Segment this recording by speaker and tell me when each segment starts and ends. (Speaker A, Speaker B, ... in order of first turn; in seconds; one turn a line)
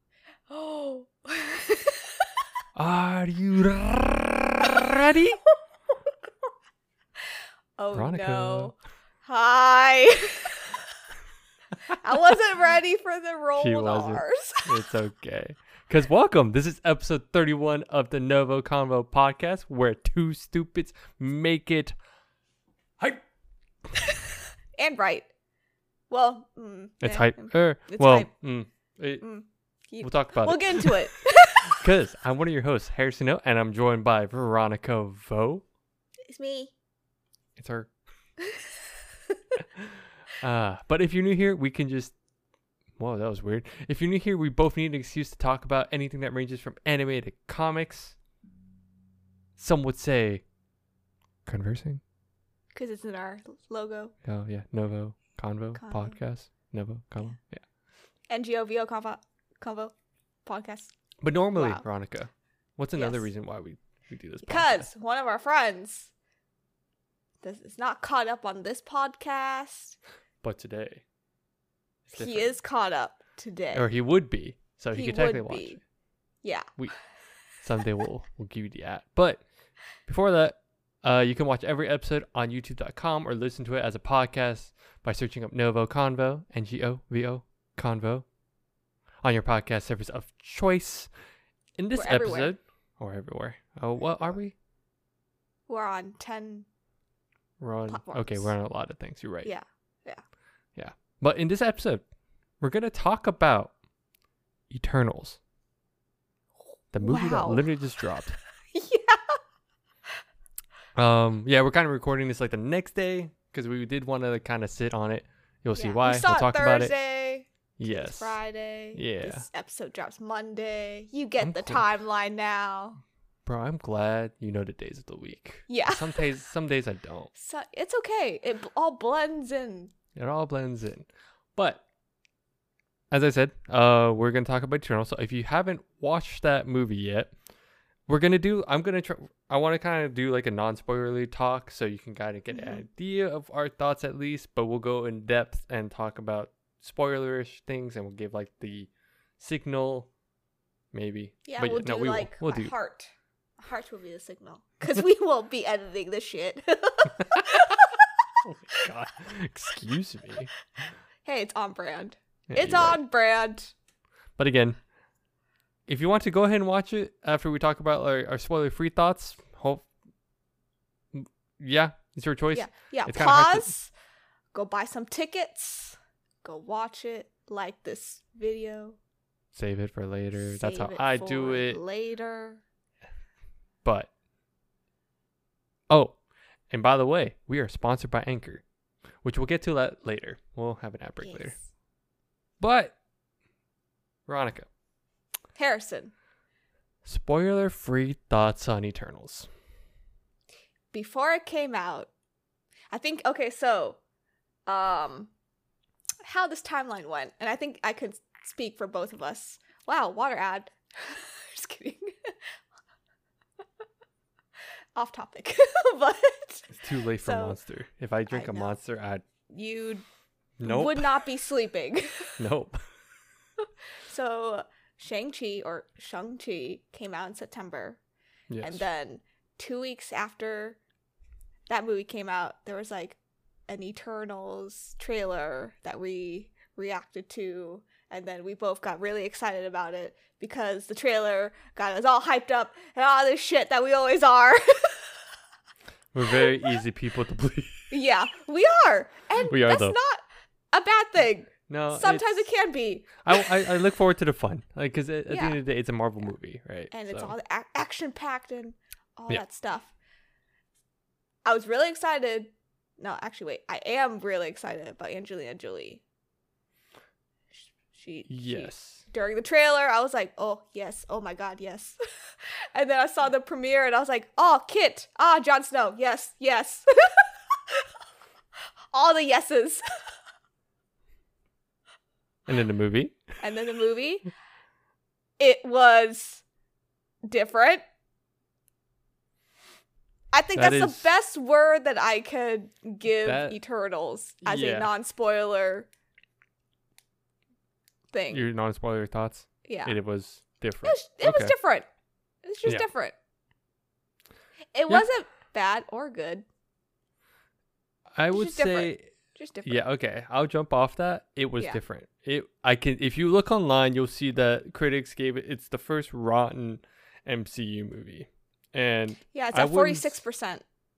Speaker A: 0.5-2.4
Speaker B: 2.7-5.4
Speaker A: 7.8-10.8
Speaker B: 7.9-8.7
Speaker A: 11.9-14.8
Speaker B: 13.6-21.9
Speaker A: 24.8-25.3
Speaker A: 26.1-28.3
Speaker B: 27.0-29.2
Speaker A: 29.2-31.8
Speaker B: 30.0-35.6
Speaker A: 36.3-36.7
Speaker B: 37.6-37.9
Speaker A: 38.4-39.4
Speaker B: 39.8-42.1
Speaker B: 43.0-48.1
Speaker B: 49.5-50.4
Speaker B: 51.5-52.0
Speaker A: 52.7-54.1
Speaker B: 54.2-57.6
Speaker A: 55.8-56.2
Speaker A: 58.3-59.9
Speaker A: 60.5-60.9
Speaker B: 61.2-64.9
Speaker A: 61.5-61.8
Speaker A: 63.0-63.2
Speaker A: 64.4-66.1
Speaker A: 67.4-70.0
Speaker B: 70.4-71.0
Speaker B: 72.1-72.5
Speaker A: 72.1-73.8
Speaker B: 73.7-75.8
Speaker A: 74.9-75.8
Speaker A: 76.4-76.7
Speaker B: 77.6-79.4
Speaker B: 80.0-88.2
Speaker B: 89.2-91.1
Speaker B: 91.8-94.5
Speaker A: 91.9-92.5
Speaker A: 95.7-96.7
Speaker B: 97.6-99.5
Speaker A: 97.9-98.5
Speaker A: 99.4-100.2
Speaker B: 100.8-102.0
Speaker B: 102.6-103.7
Speaker B: 104.7-105.4
Speaker B: 106.9-108.4
Speaker A: 107.0-107.7
Speaker A: 108.7-109.4
Speaker B: 111.0-116.9
Speaker A: 115.8-123.0
Speaker B: 117.8-118.4
Speaker B: 118.9-119.5
Speaker B: 121.4-121.9
Speaker B: 123.5-127.3
Speaker A: 125.7-126.2
Speaker A: 127.3-129.9
Speaker B: 130.2-131.8
Speaker B: 133.1-137.3
Speaker B: 138.1-150.1
Speaker A: 142.5-142.8
Speaker B: 150.9-152.7
Speaker A: 151.4-158.1
Speaker B: 157.2-157.6
Speaker B: 158.4-160.5
Speaker A: 161.2-163.7
Speaker B: 162.5-163.0
Speaker B: 164.4-164.8
Speaker B: 165.9-169.9
Speaker B: 171.1-173.7
Speaker A: 172.5-173.9
Speaker A: 174.5-179.0
Speaker B: 179.5-181.8
Speaker A: 180.4-182.6
Speaker B: 183.8-184.1
Speaker B: 185.9-186.2
Speaker B: 186.7-188.6
Speaker B: 189.2-191.6
Speaker A: 191.2-191.6
Speaker B: 192.6-192.9
Speaker B: 194.3-194.7
Speaker A: 195.6-196.1
Speaker B: 197.0-199.5
Speaker A: 200.9-202.1
Speaker A: 202.9-204.0
Speaker A: 204.7-205.3
Speaker A: 206.2-212.3
Speaker A: 214.9-217.6
Speaker B: 216.7-219.2
Speaker A: 218.3-218.7
Speaker A: 219.5-220.0
Speaker B: 220.6-221.2
Speaker A: 220.6-222.4
Speaker B: 222.4-222.8
Speaker A: 223.6-228.0
Speaker B: 228.5-228.8
Speaker A: 228.6-230.8
Speaker A: 231.7-245.2
Speaker B: 246.1-247.9
Speaker A: 246.3-246.7
Speaker A: 247.9-253.7
Speaker B: 249.4-249.9
Speaker B: 251.7-252.4
Speaker B: 253.2-257.3
Speaker A: 255.3-255.6
Speaker A: 256.9-259.9
Speaker A: 261.4-266.0
Speaker A: 267.9-277.9
Speaker B: 268.3-269.0
Speaker A: 278.9-279.8
Speaker B: 282.5-283.3
Speaker A: 283.4-284.2
Speaker A: 285.4-286.4
Speaker A: 287.2-287.8
Speaker A: 290.3-295.9
Speaker B: 290.6-291.1
Speaker B: 293.2-293.6
Speaker B: 294.4-294.9
Speaker A: 298.1-298.4
Speaker B: 298.3-301.5
Speaker A: 299.6-299.9
Speaker A: 300.8-301.9
Speaker A: 302.4-303.1
Speaker A: 304.7-306.4
Speaker B: 308.1-309.1
Speaker A: 308.3-309.8
Speaker B: 309.6-320.2
Speaker A: 319.3-320.6